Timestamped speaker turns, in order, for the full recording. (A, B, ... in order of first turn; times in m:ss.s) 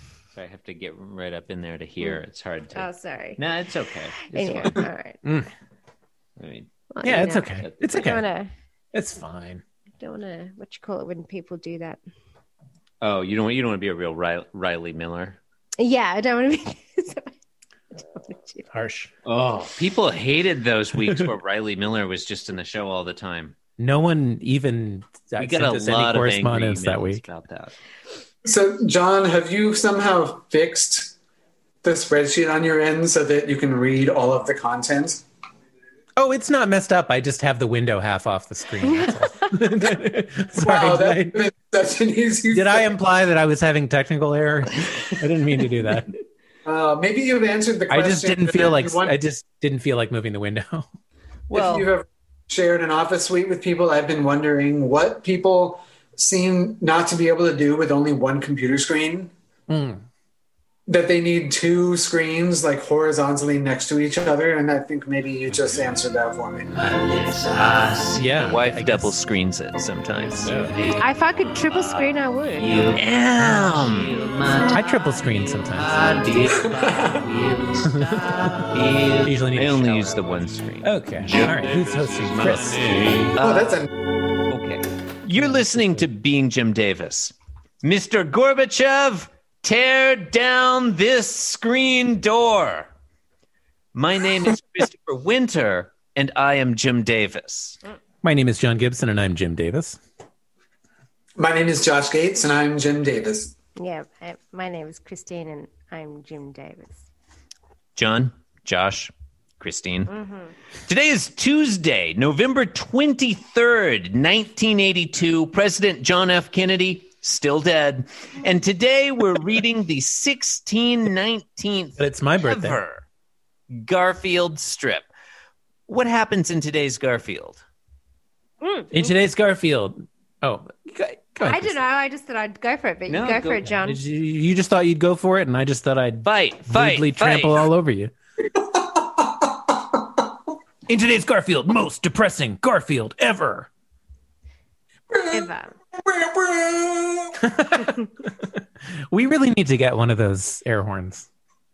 0:00.4-0:04.8 A
0:02.7-0:03.4 B
0:04.3-0:05.2 B
0:06.4-0:08.2 A
0:06.9-0:08.5 B
0:07.0-0:08.2 C
0:08.9-0:09.6 C
0:10.0-0:12.0 B
0:13.0-0:15.4 A
0:15.8-0:17.3 B
0:17.9-0:18.6 B
0:18.7-0:19.1 C
0:19.2-0:23.6 A
0:23.8-0:27.2 C
0:25.4-0:27.7 A
0:28.4-0:31.1 D
0:31.8-0:35.2 D
0:36.2-0:41.4 C
0:38.8-0:39.1 B
0:40.6-0:42.9 D
0:42.5-0:46.1 C
0:46.6-0:49.2 D
0:47.9-0:50.9 C
0:51.5-0:51.9 A
0:51.5-0:59.3 D
0:59.7-1:00.0 C
1:00.9-1:06.7 D
1:06.7-1:11.0 A
1:08.2-1:09.2 C
1:10.3-1:10.7 C
1:11.0-1:12.8 B
1:11.7-1:14.8 A
1:14.7-1:16.3 C
1:15.7-1:23.8 A
1:17.8-1:18.2 C
1:19.2-1:20.2 C
1:20.8-1:23.3 C
1:23.4-1:23.9 D
1:24.5-1:32.9 A
1:25.4-1:26.0 C
1:33.9-1:37.8 A
1:38.2-1:40.0 C
1:41.4-1:43.5 D
1:43.8-1:47.0 B
1:48.0-1:50.1 A
1:50.1-1:50.5 B
1:50.8-2:03.0 A
2:02.0-2:02.8 C
2:03.7-2:05.1 A
2:05.9-2:07.6 A
2:08.6-2:09.0 B
2:08.9-2:11.8 C
2:11.4-2:14.0 B
2:13.1-2:13.7 A
2:13.8-2:18.1 C
2:16.2-2:17.7 A
2:18.7-2:19.7 D
2:20.9-2:23.7 C
2:25.1-2:27.4 D
2:25.3-2:25.8 B
2:27.4-2:28.0 C
2:29.1-2:31.3 C